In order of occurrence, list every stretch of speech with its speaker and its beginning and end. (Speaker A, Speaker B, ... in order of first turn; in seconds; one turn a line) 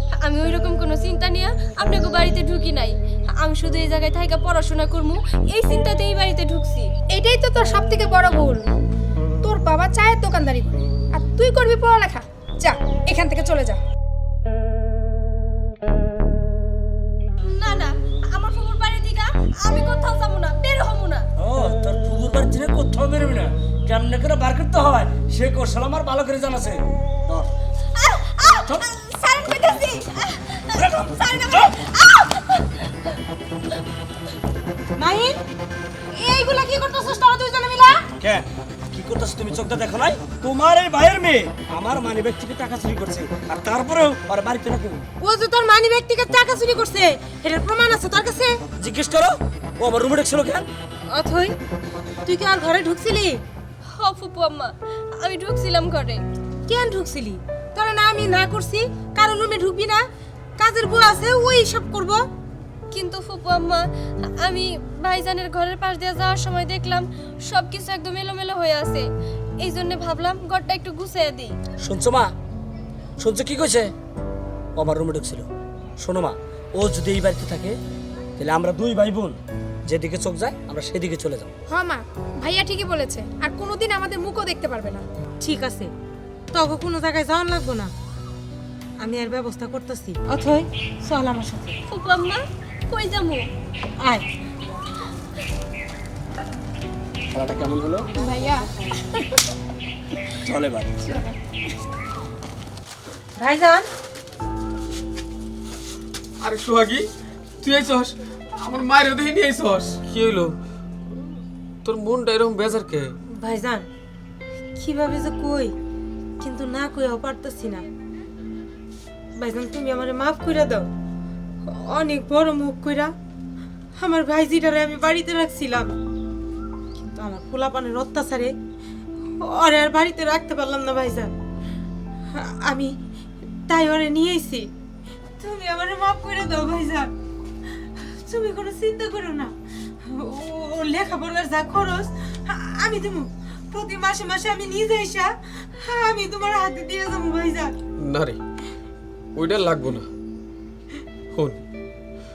Speaker A: 0.2-6.9
Speaker B: 7.1-8.6
Speaker B: 9.4-13.8
Speaker A: 17.5-21.2
Speaker C: 21.4-27.5
Speaker A: 28.0-32.9
Speaker C: 30.7-31.7
Speaker D: 35.0-35.4
Speaker D: 36.1-38.0
Speaker C: 38.2-45.0
Speaker D: 45.2-48.6
Speaker C: 48.8-50.6
Speaker D: 51.1-51.5
Speaker D: 52.2-53.4
Speaker A: 54.0-56.2
Speaker D: 56.7-60.0
Speaker D: 60.6-62.2
Speaker A: 62.9-63.8
Speaker A: 64.4-69.1
Speaker A: 69.6-71.5
Speaker C: 71.8-72.3
Speaker C: 73.2-73.9
Speaker C: 74.8-75.5
Speaker C: 76.0-77.8
Speaker C: 78.4-79.4
Speaker C: 79.9-81.5
Speaker B: 81.7-85.0
Speaker D: 85.4-85.9
Speaker D: 86.5-87.9
Speaker D: 89.0-91.8
Speaker A: 91.9-93.4
Speaker C: 97.3-98.1
Speaker B: 98.2-99.3
Speaker C: 100.4-101.1
Speaker D: 103.4-103.9
Speaker E: 106.4-107.1
Speaker E: 107.6-110.5
Speaker E: 111.8-113.1
Speaker D: 113.3-113.9
Speaker D: 114.8-115.8
Speaker D: 116.4-117.9
Speaker D: 119.4-120.9
Speaker D: 121.6-123.1
Speaker D: 124.0-126.0
Speaker D: 127.0-128.6
Speaker D: 129.4-131.3
Speaker D: 132.3-133.0
Speaker D: 133.7-134.7
Speaker D: 135.4-137.1
Speaker D: 137.7-147.7
Speaker E: 148.0-148.4
Speaker E: 149.4-150.1
Speaker E: 151.3-151.6